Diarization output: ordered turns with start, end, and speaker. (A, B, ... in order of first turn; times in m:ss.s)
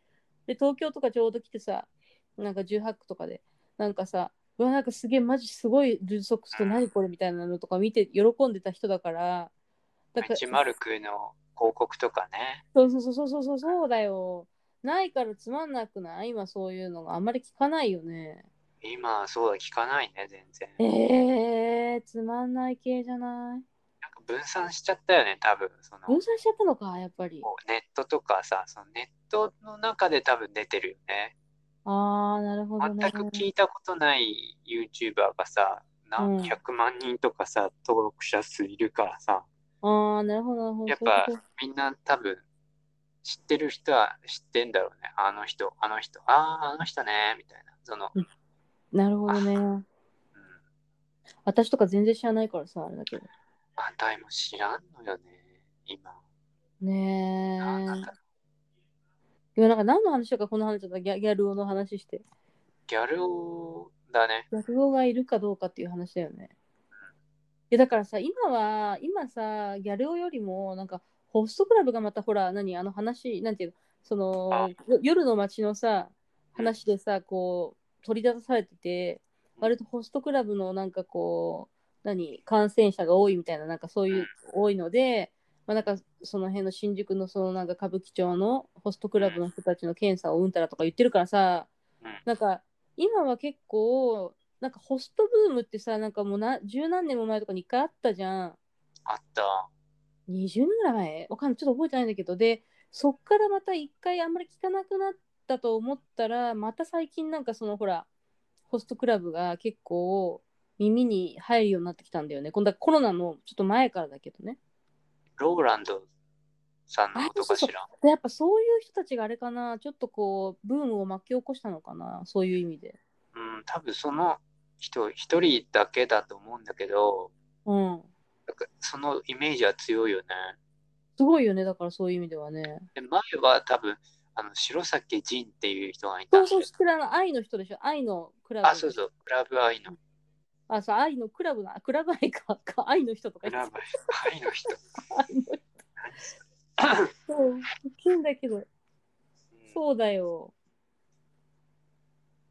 0:00.5-0:09.5 A
0:06.5-0:06.9 B
0:10.1-0:10.6 A
0:10.2-0:12.6 B
0:12.8-0:18.5 A
0:18.8-0:20.8 B
0:20.8-0:23.6 A
0:24.0-0:26.2 B
0:26.1-0:27.5 A
0:27.4-0:31.3 B
0:31.9-0:33.4 A
0:32.8-0:39.5 B
0:36.2-0:36.6 A
0:39.8-0:41.4 A
0:40.9-0:42.4 B
0:43.2-0:48.1 B
0:48.9-0:49.8 A
0:51.4-0:53.3 A
0:53.8-0:56.2 B
0:56.8-0:58.1 A
0:57.6-0:58.1 B
0:59.6-1:02.2 A
1:02.9-1:04.5 B
1:04.5-1:06.5 A
1:07.7-1:31.7 A
1:32.3-1:38.6 A
1:39.1-1:39.7 B
1:40.3-1:48.1 A
1:48.7-1:54.6 A
1:55.4-1:56.1 B
1:56.9-1:57.9 B
1:57.2-2:03.0 A
2:03.3-2:07.3 B
2:07.7-2:08.1 A
2:08.5-2:10.6 B
2:11.2-2:12.9 A
2:13.0-2:16.7 B
2:16.3-2:19.0 A
2:18.6-2:20.0 B
2:20.7-2:24.1 A
2:23.4-2:24.8 B
2:25.1-2:25.6 A
2:26.0-2:27.1 B
2:27.3-2:28.7 A
2:29.7-2:30.5 A